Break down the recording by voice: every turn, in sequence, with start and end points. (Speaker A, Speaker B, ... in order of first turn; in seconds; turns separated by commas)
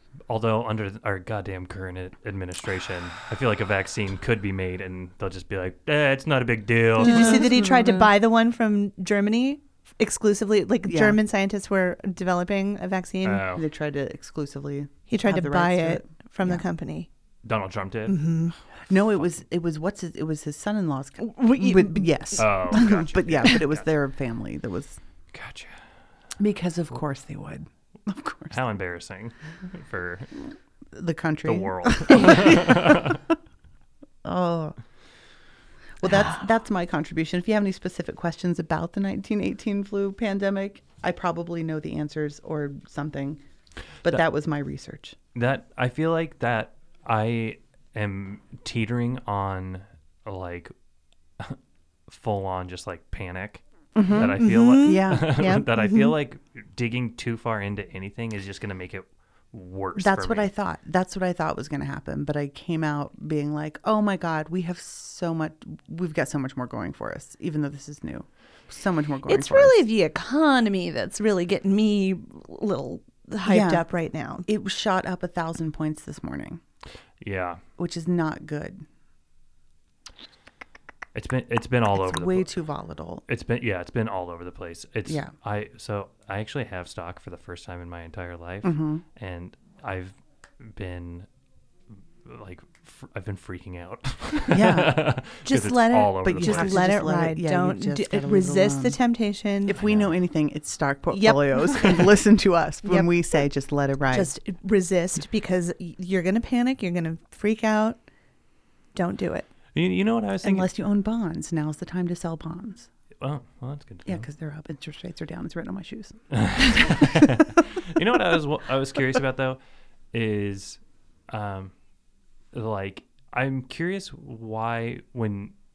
Speaker A: 0.3-7.4, Speaker B: 7.0-13.4, Speaker C: 7.0-8.1, Speaker C: 10.8-11.2, Speaker A: 13.2-13.6, Speaker C: 13.5-16.6, Speaker B: 15.1-17.1, Speaker A: 17.4-18.2, Speaker B: 18.1-18.5, Speaker C: 18.9-25.0, Speaker B: 21.2-22.8, Speaker A: 22.4-23.8, Speaker A: 25.3-25.8, Speaker C: 26.4-28.6, Speaker A: 28.5-30.3, Speaker C: 30.9-33.2, Speaker A: 31.4-33.2, Speaker C: 34.2-34.8, Speaker C: 36.0-43.4, Speaker C: 44.0-45.2, Speaker A: 45.3-50.7, Speaker A: 51.4-60.5, Speaker C: 54.0-55.4, Speaker B: 54.4-56.1, Speaker C: 60.0-69.8, Speaker B: 69.3-74.5, Speaker C: 73.5-73.9, Speaker C: 74.4-76.6, Speaker A: 77.2-77.6, Speaker C: 77.8-78.8, Speaker A: 81.1-82.5, Speaker C: 81.9-83.2, Speaker A: 83.3-91.3, Speaker C: 85.0-85.3, Speaker C: 88.6-89.0, Speaker A: 92.2-96.8, Speaker C: 94.5-95.1, Speaker B: 95.4-99.7, Speaker C: 96.2-99.0, Speaker C: 99.7-104.3, Speaker A: 99.7-100.1, Speaker B: 101.1-102.0, Speaker B: 102.8-103.1, Speaker B: 104.1-108.0, Speaker B: 108.9-109.5, Speaker A: 109.7-110.7, Speaker C: 110.4-112.9, Speaker A: 113.2-114.2, Speaker C: 114.0-117.6, Speaker A: 116.3-119.6, Speaker A: 120.1-121.7, Speaker A: 122.5-125.5